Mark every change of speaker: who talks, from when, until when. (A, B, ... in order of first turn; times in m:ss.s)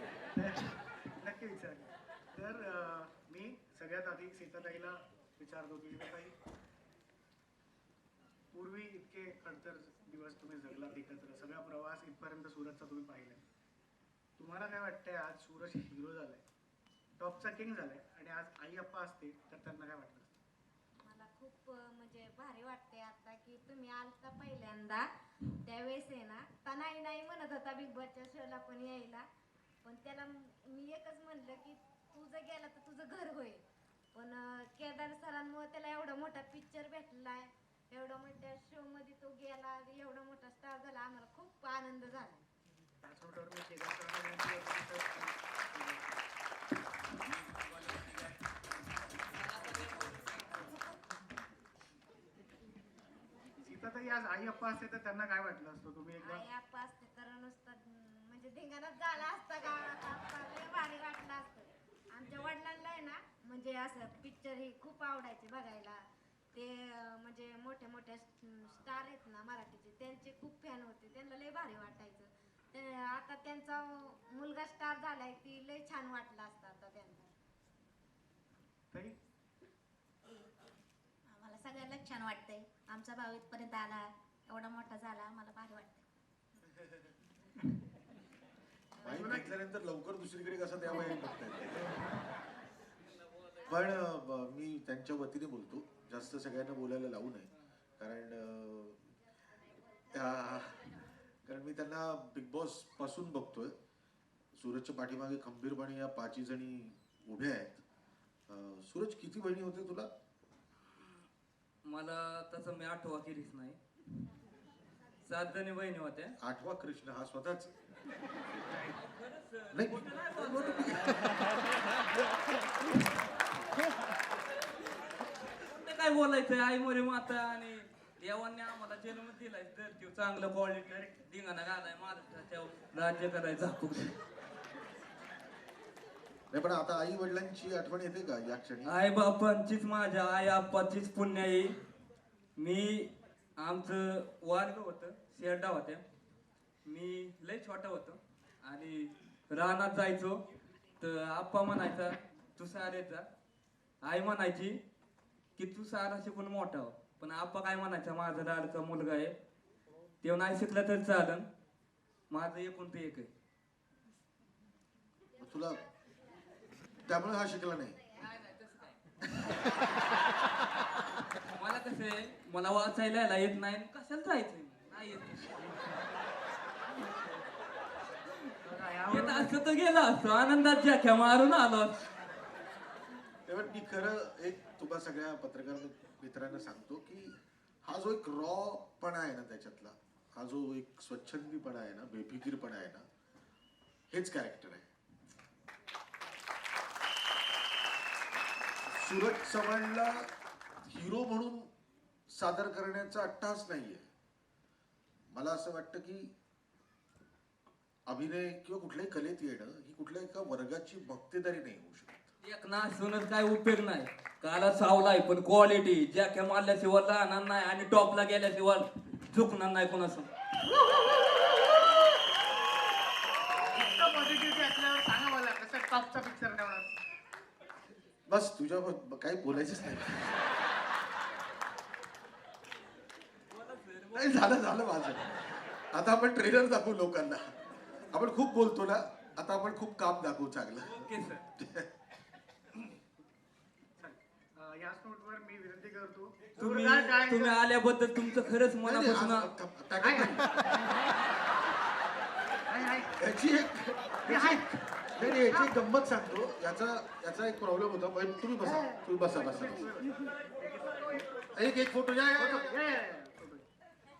0:00.3-0:06.3 A
0:08.5-0:13.4 A
0:14.4-0:16.4 A
0:17.2-0:20.3 A
0:21.0-0:25.1 B
0:25.6-0:29.3 B
0:29.8-0:42.5 B
0:43.0-0:46.1 A
0:49.4-0:50.5 C
0:53.6-0:56.4 A
0:56.2-1:17.3 B
1:21.3-1:26.0 D
1:29.0-1:31.9 E
1:29.0-1:29.5 A
1:33.6-1:39.0 E
1:40.1-1:40.9 E
1:41.5-1:43.7 E
1:44.5-1:47.8 E
1:48.5-1:50.1 E
1:51.8-1:53.8 C
1:55.2-1:56.4 C
1:56.4-1:57.7 E
1:58.9-2:01.2 C
1:59.7-2:00.2 E
2:05.6-2:14.2 C
2:10.9-2:11.2 A
2:16.5-2:19.0 E
2:18.8-2:21.8 C
2:22.6-2:26.0 C
2:26.9-2:30.4 C
2:31.0-2:33.3 C
2:34.0-2:34.8 C
2:35.6-2:39.4 C
2:40.2-2:41.5 C
2:42.3-2:43.3 C
2:45.4-2:45.8 E
2:47.1-2:48.0 E
2:48.3-2:49.0 C
2:51.5-2:55.7 C
2:58.6-2:59.6 A
2:59.1-3:02.0 C
3:03.5-3:13.0 E
3:14.1-3:14.9 E
3:18.9-3:20.3 E
3:20.8-3:21.7 E
3:22.3-3:24.1 E
3:25.3-3:26.3 E
3:28.1-3:32.3 E
3:32.4-3:40.3 C
3:43.7-3:46.9 A
3:48.3-3:50.4 E
3:53.5-3:54.6 C
3:54.1-3:57.6 E
3:58.1-4:01.9 E
4:00.8-4:01.4 C
4:04.0-4:07.6 A
4:06.6-4:09.5 C
4:08.8-4:10.5 E
4:10.0-4:10.4 A
4:12.7-4:13.2 A
4:13.2-4:19.9 E
4:14.3-4:15.7 A
4:18.6-4:21.3 A
4:21.5-4:22.8 E
4:22.4-4:23.6 A